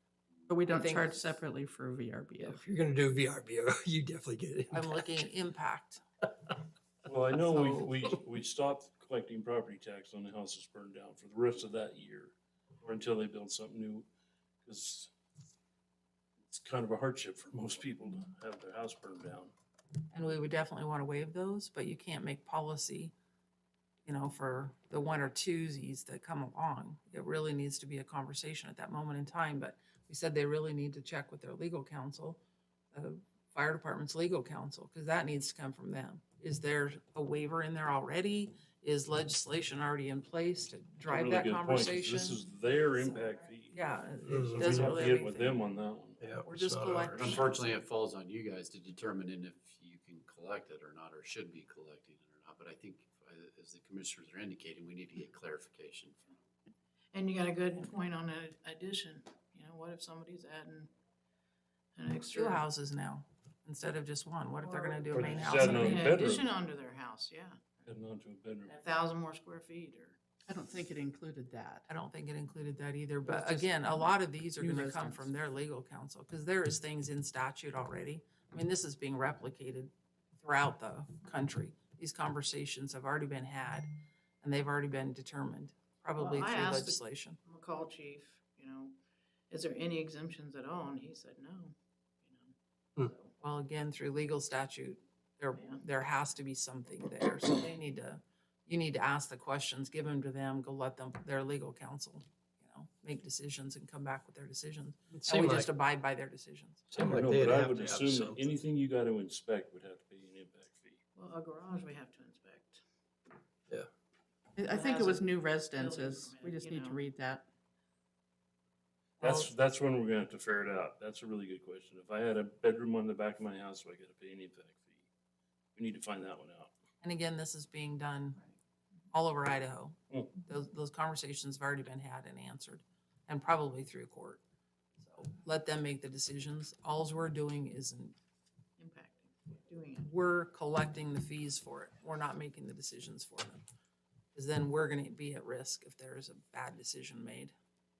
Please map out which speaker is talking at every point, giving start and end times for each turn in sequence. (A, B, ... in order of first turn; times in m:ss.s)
0:00.5-0:02.6 A
0:00.7-0:01.2 B
0:02.6-0:05.0 C
0:04.7-0:06.0 B
0:07.0-0:14.1 D
0:07.5-0:07.9 B
0:14.6-0:15.1 D
0:16.5-0:19.5 D
0:20.1-0:23.1 B
0:24.0-0:32.4 B
0:32.9-0:42.4 B
0:41.0-0:46.3 D
0:43.7-0:45.6 B
0:44.3-0:44.9 C
0:46.2-0:47.3 C
0:46.4-0:47.8 B
0:47.2-0:56.3 E
0:57.1-1:00.9 F
1:02.0-1:02.6 F
1:02.3-1:06.3 B
1:04.6-1:07.8 F
1:05.1-1:06.5 D
1:07.8-1:08.7 D
1:08.6-1:10.2 F
1:10.4-1:11.8 A
1:11.9-1:23.9 B
1:13.2-1:15.2 A
1:24.4-1:27.4 B
1:26.2-1:28.9 F
1:29.5-1:33.3 F
1:33.4-1:46.8 B
1:45.1-1:45.7 C
1:46.9-1:51.0 D
1:46.9-1:48.5 C
1:51.1-1:52.8 F
1:54.6-1:57.4 A
1:54.7-1:57.0 F
1:59.2-2:05.0 D
1:59.2-1:59.5 B
2:05.8-2:06.7 D
2:07.0-2:08.4 B
2:09.1-2:14.4 B
2:15.0-2:18.1 B
2:18.8-2:20.1 F
2:20.0-2:23.6 B
2:24.3-2:27.5 B